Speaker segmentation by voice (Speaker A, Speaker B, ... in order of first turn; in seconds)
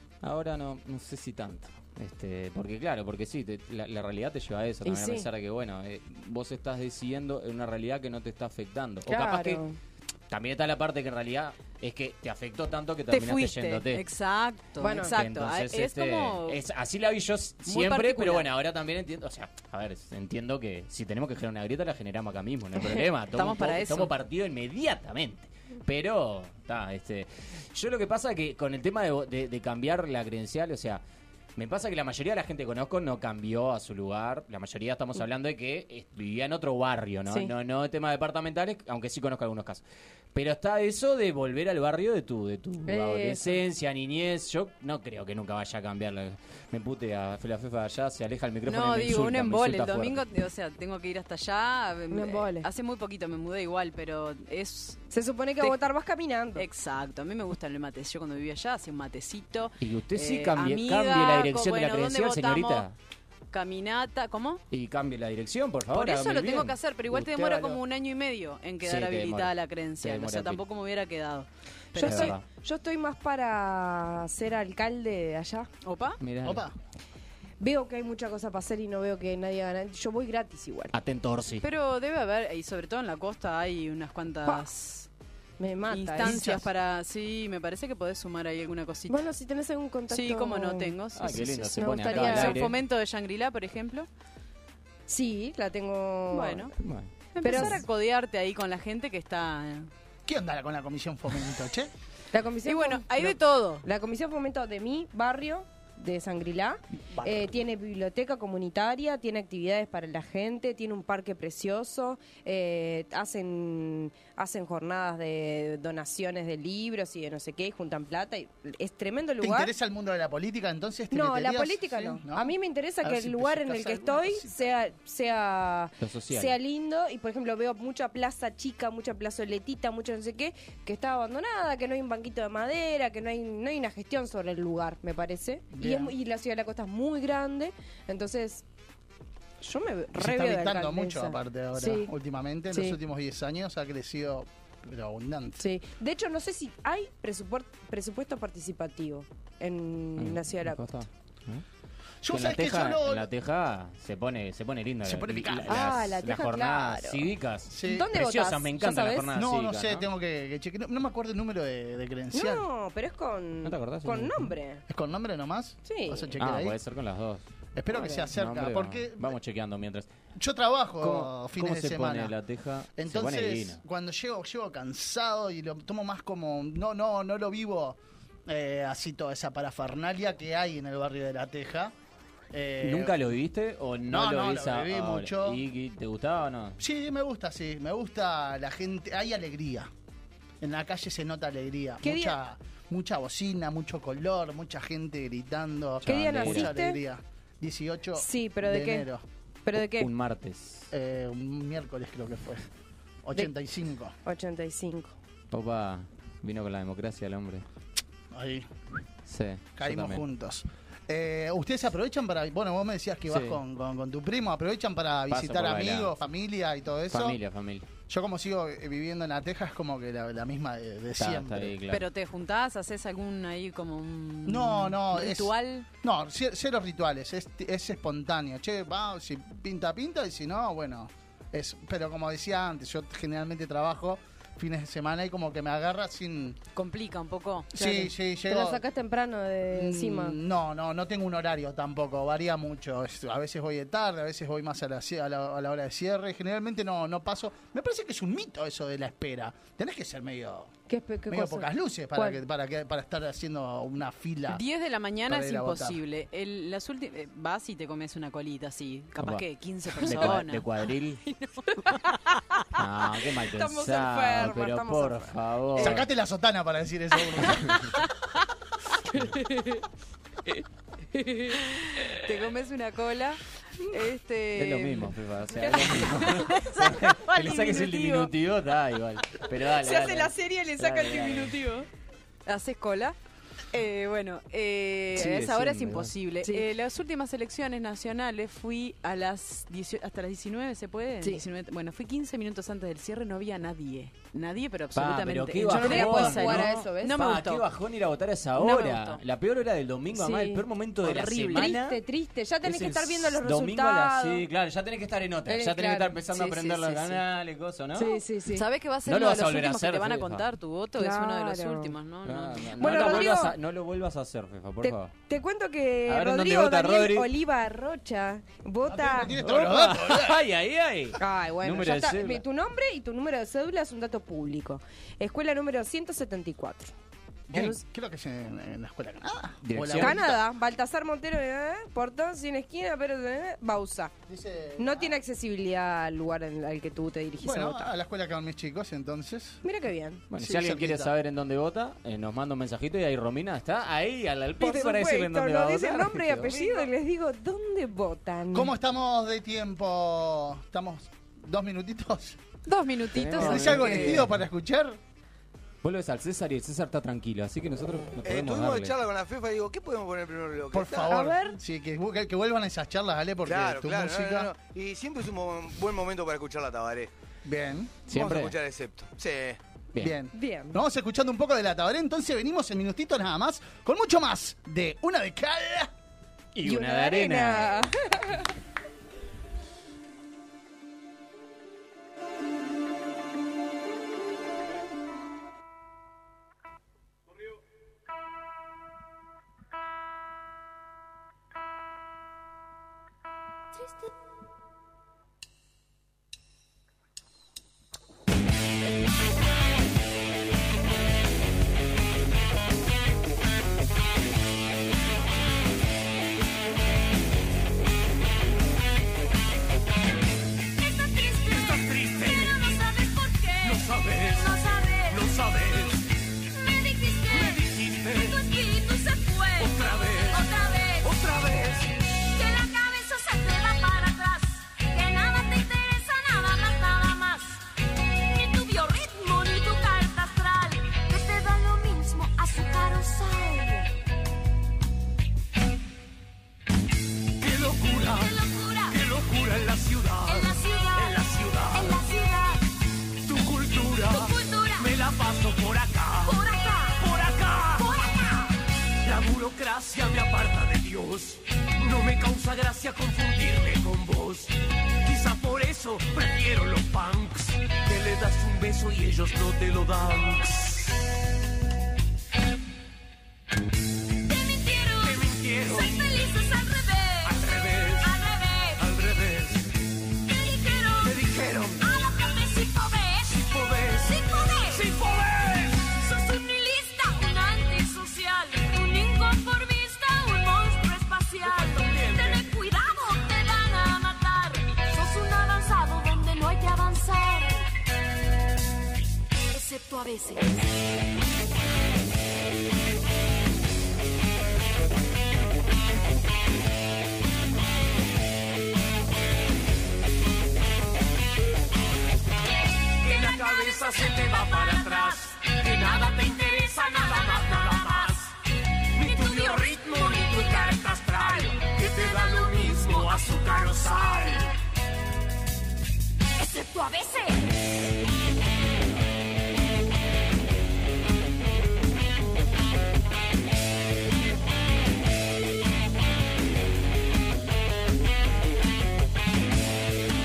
Speaker A: 0.2-9.6, 10.3-14.0, 14.9-31.0, 31.6-39.8, 40.3-50.3, 59.8-62.9, 64.7-67.8, 68.8-70.6, 72.0-72.4, 76.2-76.7, 80.9-81.7, 91.2-92.8, 96.8-97.8, 126.0-126.5, 150.2-151.6, 152.3-160.1, 163.7-164.5, 166.4-167.4, 168.3-170.1, 171.0-173.8, 182.8-186.8, 196.0-196.7, 199.8-200.9, 205.5-207.7, 209.3-210.2, 213.3-213.6, 215.3-216.1, 217.1-217.9, 221.2-222.1, 259.2-259.4, 260.0-261.2, 262.8-266.1, 267.6-267.9, 274.6-281.6, 285.1-286.1, 294.9-302.0, 302.6-308.2, 309.1-310.5, 312.2-315.1, 316.1-317.3, 319.3-322.4, 329.6-330.3, 340.3-346.9, 353.2-354.4, 355.8-359.0, 368.1-368.6, 376.6-377.9
Speaker B: 4.8-5.3, 9.1-9.8, 14.8-15.1, 42.9-43.6, 52.1-52.7, 55.1-56.6, 72.0-75.7, 77.6-80.9, 85.6-86.4, 89.1-92.7, 95.1-96.7, 97.4-97.8, 102.3-119.7, 121.1-138.6, 139.6-142.1, 142.7-143.0, 145.6-151.1, 155.7-157.3, 157.8-159.3, 162.3-164.8, 165.8-166.3, 167.9-168.3, 192.0-192.4, 196.1-197.0, 198.2-199.1, 199.7-200.1, 204.2-205.1, 237.8-240.4, 250.9-252.4, 263.5-265.4, 279.8-281.8, 295.7-297.2, 300.1-300.6, 301.5-304.5, 305.5-307.2, 307.9-308.6, 311.0-311.9, 312.8-313.6, 314.8-319.3, 321.2-326.9, 327.5-327.8, 330.0-334.1, 334.8-337.9, 339.6-340.2, 344.6-348.7, 361.1-361.6, 370.3-370.8, 376.6-378.5
Speaker C: 13.1-16.6, 17.7-18.5, 23.3-24.1, 48.7-55.0, 56.6-62.9, 63.5-64.6, 65.9-72.4, 75.8-76.2, 81.6-85.1, 85.9-89.2, 90.1-94.1, 96.3-96.8, 97.3-99.9, 102.7-103.8, 221.9-225.9, 236.8-238.0, 254.5-260.7, 261.3-262.4, 272.2-275.1, 275.6-278.3, 281.5-281.8, 282.5-283.2, 283.7-297.7, 298.6-299.2, 301.0-301.8, 308.5-313.4, 352.7-354.2
Speaker D: 76.4-76.8, 86.2-86.7, 100.3-101.9, 107.2-107.5, 119.4-124.6, 135.7-136.1, 140.2-145.6, 152.2-153.3, 155.0-155.8, 157.7-158.1, 159.3-162.7, 164.9-166.8, 167.8-169.4, 170.4-172.3, 173.0-181.9, 182.5-183.2, 184.1-185.6, 186.8-189.9, 190.6-199.2, 200.9-202.7, 203.2-204.2, 208.3-208.7, 209.8-217.4, 218.1-221.8, 224.5-236.6, 237.7-238.8, 239.7-250.7, 251.3-254.6, 255.3-256.0, 265.8-267.9, 318.9-320.4, 327.5-330.4, 334.3-335.2, 337.4-339.6, 340.4-341.1, 348.5-352.4, 353.4-355.0, 360.7-364.5, 367.4-368.0, 370.0-375.9
Speaker E: 358.2-361.1, 363.4-367.1, 368.1-369.6
Speaker F: 410.8-415.4, 416.5-421.2, 422.0-433.9, 438.0-439.0, 440.3-442.6, 444.1-444.9, 446.3-447.1, 447.7-448.6, 464.3-467.4, 468.0-468.9, 470.2-475.0, 475.9-487.7, 489.5-490.7, 503.3-508.1, 509.0-514.3, 516.4-517.5
Speaker G: 411.5-412.6, 413.6-414.5, 415.1-416.1, 417.3-418.4, 419.6-420.4, 421.0-421.9, 437.4-438.4, 438.9-442.0, 443.2-446.4, 447.0-447.9, 449.0-461.0, 465.0-466.1, 467.2-468.1, 468.8-469.7, 471.0-471.9, 473.3-474.2, 474.7-475.9, 481.4-482.5, 503.0-508.3, 509.0-514.5